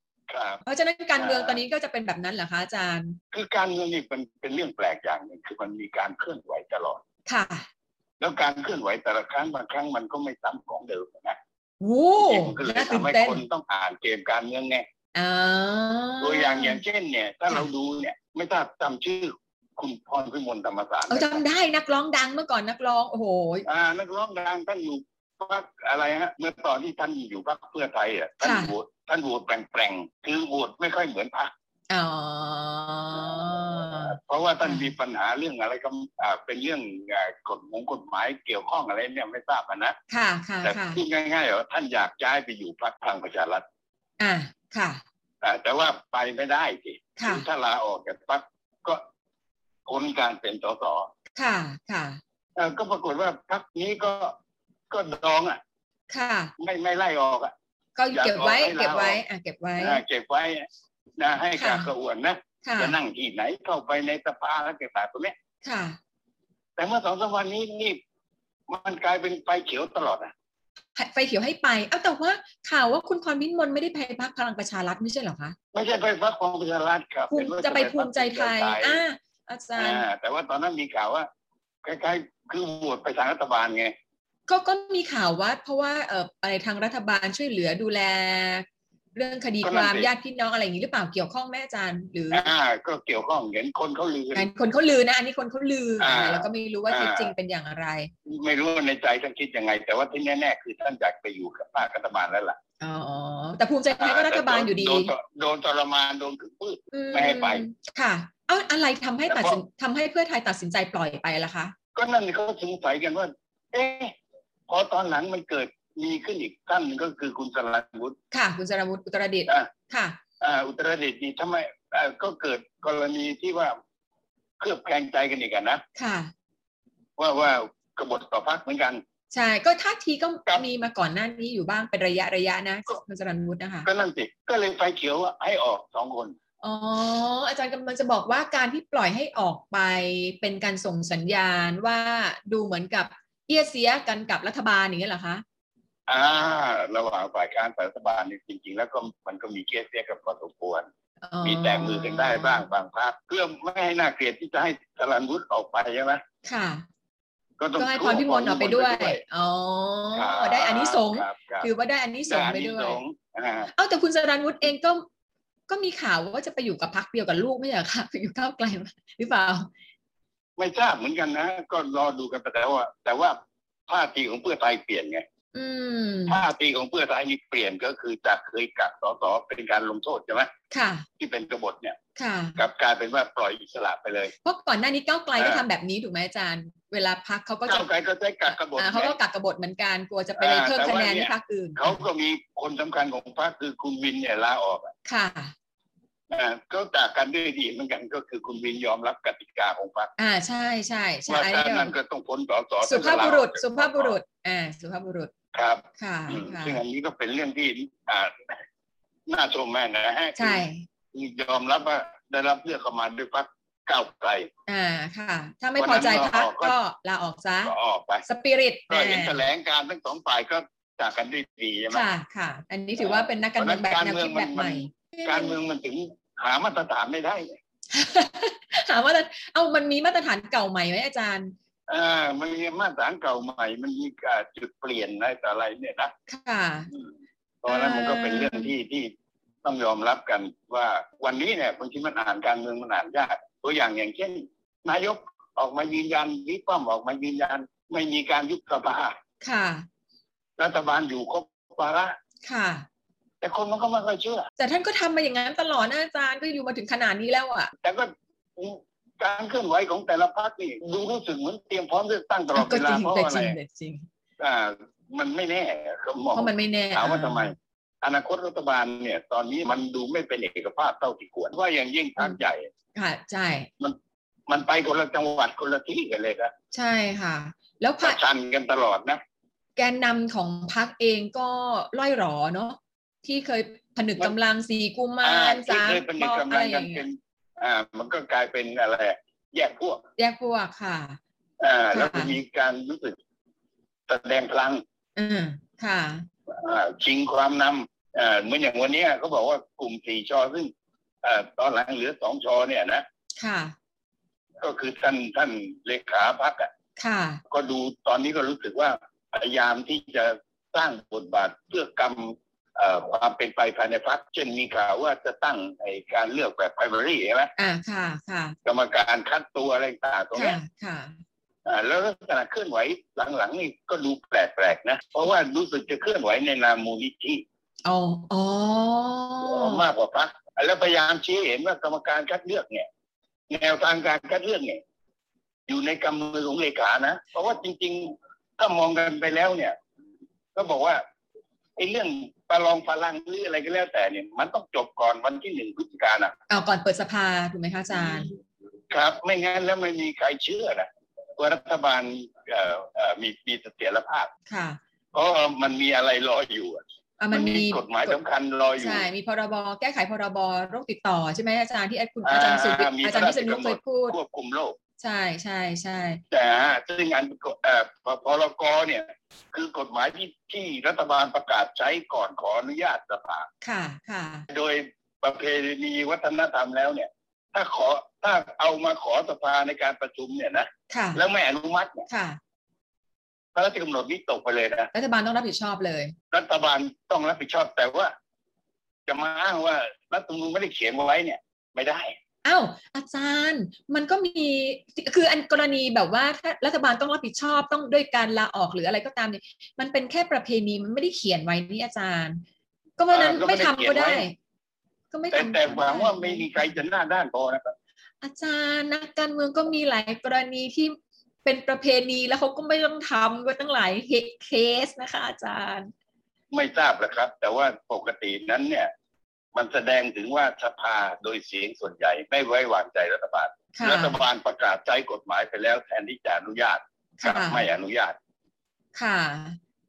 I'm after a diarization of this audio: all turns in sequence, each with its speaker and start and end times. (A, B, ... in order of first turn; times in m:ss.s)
0:00.3-0:00.6 A
0:00.6-0:03.2 B
0:01.2-0:01.6 A
0:03.3-0:07.0 A
0:07.2-0:07.7 B
0:08.2-0:11.4 A
0:11.8-0:13.4 B
0:12.2-0:14.8 A
0:15.1-0:16.8 B
0:16.2-0:21.4 A
0:21.1-0:23.6 B
0:23.6-0:31.5 A
0:28.4-0:28.7 B
0:31.9-0:34.9 B
0:33.9-0:40.0 A
0:40.1-0:41.0 B
0:40.6-0:43.6 A
0:44.2-0:45.0 B
0:45.4-0:49.0 A
0:47.2-0:47.4 B
0:49.8-0:51.1 A
0:51.4-0:52.2 B
0:52.6-0:54.3 A
0:54.9-0:55.6 A
0:56.1-0:56.5 B
0:56.6-0:57.5 A
0:58.0-1:00.0 B
0:58.1-0:59.2 A
0:59.8-1:00.6 A
1:01.2-1:05.3 A
1:01.6-1:01.9 B
1:02.6-1:03.0 B
1:05.6-1:06.0 B
1:06.8-1:08.0 A
1:08.7-1:10.3 A
1:11.0-1:15.6 B
1:15.7-1:19.0 A
1:17.3-1:20.0 B
1:19.8-1:21.3 A
1:21.8-1:23.9 A
1:24.5-1:32.5 B
1:29.6-1:30.1 A
1:32.3-1:34.5 A
1:34.3-1:38.1 B
1:36.0-1:37.3 A
1:38.3-1:42.6 A
1:42.8-1:45.1 B
1:44.0-1:47.6 A
1:46.9-1:51.7 B
1:49.3-1:49.6 A
1:51.9-1:54.1 A
1:54.7-1:58.2 A
1:58.3-2:00.2 B
2:00.4-2:03.8 A
2:04.6-2:05.8 A
2:06.0-2:06.3 B
2:07.2-2:09.0 A
2:09.3-2:13.9 B
2:13.8-2:16.3 A
2:16.6-2:25.4 B
2:26.1-2:30.9 A
2:31.2-2:32.6 B
2:31.4-2:36.2 A
2:36.4-2:36.8 B
2:37.6-2:39.2 A
2:37.8-2:43.0 B
2:40.1-2:41.7 A
2:42.3-2:43.7 A
2:43.7-2:45.0 B
2:45.7-2:49.7 B
2:50.6-2:55.2 A
2:55.5-2:56.4 B
2:56.3-3:00.5 A
3:00.7-3:01.0 B
3:01.2-3:02.0 A
3:02.2-3:02.6 B
3:02.6-3:04.3 A
3:04.4-3:07.8 B
3:07.7-3:09.1 A
3:08.5-3:12.0 B
3:10.4-3:14.9 A
3:15.0-3:15.5 B
3:16.3-3:20.1 A
3:20.2-3:21.9 B
3:21.3-3:24.2 A
3:22.8-3:25.3 B
3:25.5-3:28.5 A
3:26.0-3:26.8 B
3:29.3-3:30.6 A
3:30.4-3:30.8 B
3:31.1-3:34.5 A
3:34.7-3:37.7 B
3:35.8-3:36.8 A
3:37.6-3:38.2 A
3:38.2-3:39.4 B
3:38.9-3:42.0 A
3:41.9-3:45.5 B
3:43.0-3:47.6 A
3:47.9-3:51.5 B
3:51.9-3:56.1 A
3:56.3-3:56.9 B
3:57.6-3:59.1 A
3:57.7-3:58.7 B
3:59.6-4:09.2 A
4:09.4-4:09.8 B
4:10.6-4:12.2 A
4:12.4-4:12.8 B
4:13.4-4:14.5 A
4:14.6-4:17.7 B
4:17.8-4:23.6 A
4:22.5-4:24.1 B
4:24.4-4:32.7 A
4:26.3-4:27.5 B
4:32.9-4:33.7 B
4:34.5-4:36.5 A
4:36.7-4:38.2 B
4:38.0-4:39.2 A
4:39.8-4:47.0 B
4:45.2-4:50.0 A
4:50.2-4:51.2 B
4:51.6-4:53.2 A
4:51.9-4:52.3 B
4:54.1-4:54.8 A
4:55.2-4:56.2 B
4:56.5-5:00.7 A
5:01.2-5:03.0 A
5:03.4-5:03.7 B
5:04.6-5:06.7 A
5:07.0-5:07.4 B
5:07.5-5:17.5 A
5:17.6-5:18.6 B
5:18.6-5:20.6 A
5:20.3-5:21.2 B
5:21.6-5:27.4 A
5:27.8-5:29.8 B
5:29.4-5:32.9 A
5:33.5-5:34.8 A
5:35.7-5:39.8 A
5:40.5-5:41.0 A
5:41.8-5:46.4 A
5:46.5-5:48.3 B
5:48.9-5:54.3 A
5:54.5-5:54.8 B
5:55.1-5:56.8 A
5:57.2-5:58.2 B
5:57.3-5:59.0 A
5:58.8-6:04.1 B
6:02.2-6:04.8 A
6:05.0-6:06.2 B
6:06.3-6:13.5 A
6:13.6-6:14.5 B
6:14.5-6:22.1 A
6:20.9-6:21.2 B
6:22.1-6:22.4 B
6:23.5-6:24.9 A
6:24.9-6:26.1 B
6:26.3-6:28.1 A
6:29.1-6:32.2 A
6:32.4-6:42.4 B
6:43.0-6:44.3 B
6:43.1-6:44.2 A
6:45.1-6:46.7 B
6:45.3-6:47.7 A
6:48.2-6:55.9 B
6:56.5-6:58.9 A
6:59.5-7:08.2 A
7:03.8-7:04.2 B
7:07.2-7:07.6 B
7:08.9-7:09.6 B